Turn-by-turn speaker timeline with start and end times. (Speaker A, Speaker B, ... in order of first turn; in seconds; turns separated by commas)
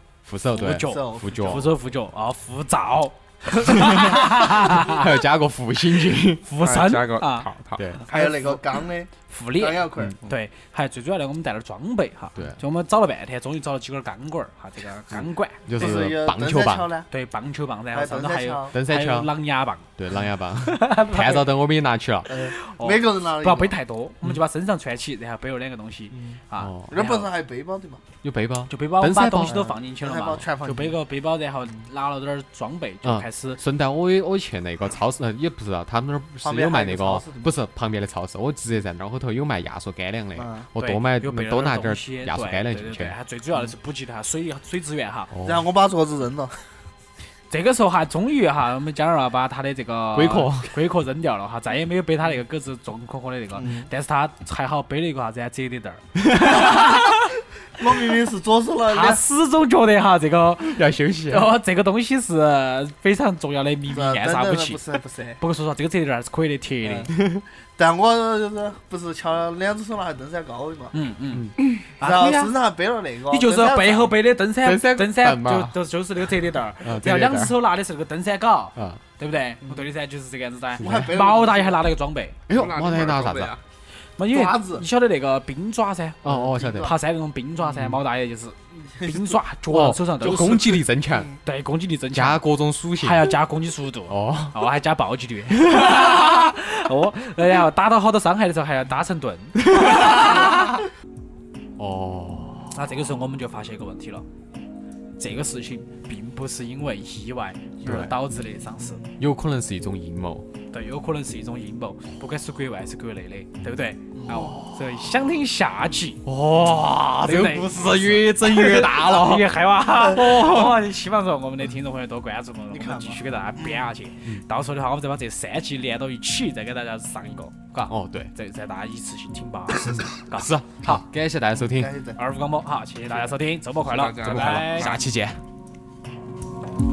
Speaker A: 0.3-1.7, Speaker B: 0.6-5.1, Speaker C: 0.7-1.6, Speaker A: 3.8-6.5, Speaker B: 6.5-7.5, Speaker D: 6.6-8.4, Speaker A: 7.8-8.0, Speaker C: 8.0-10.2, Speaker B: 9.3-15.6, Speaker A: 12.3-12.6, Speaker A: 15.2-16.9, Speaker C: 15.8-17.1, Speaker B: 17.1-19.9, Speaker C: 17.9-18.7, Speaker A: 18.7-19.3, Speaker A: 20.0-22.4, Speaker B: 20.7-21.5, Speaker C: 22.3-23.8, Speaker B: 22.5-27.3, Speaker C: 26.1-28.0, Speaker A: 26.6-26.9, Speaker A: 28.2-29.7, Speaker B: 28.7-33.6, Speaker C: 29.4-31.0, Speaker A: 33.0-43.2, Speaker C: 36.4-37.5, Speaker C: 40.4-40.6, Speaker B: 40.8-45.3, Speaker A: 45.3-45.6, Speaker C: 45.4-46.6, Speaker B: 47.5-57.4, Speaker A: 50.1-50.7, Speaker C: 53.6-53.9, Speaker C: 57.8-59.2, Speaker B: 58.9-64.8, Speaker A: 60.6-61.6, Speaker C: 63.9-65.4, Speaker B: 65.4-67.1, Speaker C: 66.8-67.1, Speaker A: 67.1-67.4, Speaker C: 67.8-70.9, Speaker B: 70.9-72.6, Speaker C: 72.0-74.2, Speaker B: 73.3-82.4, Speaker A: 74.6-75.8, Speaker A: 76.8-77.6, Speaker A: 78.8-79.0, Speaker A: 80.8-81.1, Speaker C: 80.8-81.8, Speaker A: 82.5-83.5, Speaker D: 82.5-83.6, Speaker B: 84.2-86.2, Speaker C: 84.3-84.8, Speaker A: 86.2-86.9, Speaker C: 86.2-86.9, Speaker B: 86.8-90.7, Speaker A: 89.7-91.3, Speaker C: 90.2-91.3, Speaker B: 91.4-92.4, Speaker A: 92.1-93.4, Speaker B: 93.0-100.5, Speaker A: 94.1-94.6, Speaker A: 99.7-100.7, Speaker A: 101.8-102.8, Speaker B: 102.7-104.3, Speaker B: 105.2-109.1, Speaker A: 107.8-108.1, Speaker A: 109.2-110.5, Speaker B: 110.7-116.3, Speaker C: 114.2-114.5, Speaker A: 114.5-114.8, Speaker A: 116.2-120.8, Speaker B: 117.2-131.0, Speaker C: 122.7-123.9, Speaker A: 127.8-128.3, Speaker A: 129.8-131.9, Speaker C: 131.7-132.2, Speaker B: 132.2-135.0, Speaker D: 133.8-135.1, Speaker A: 134.2-135.4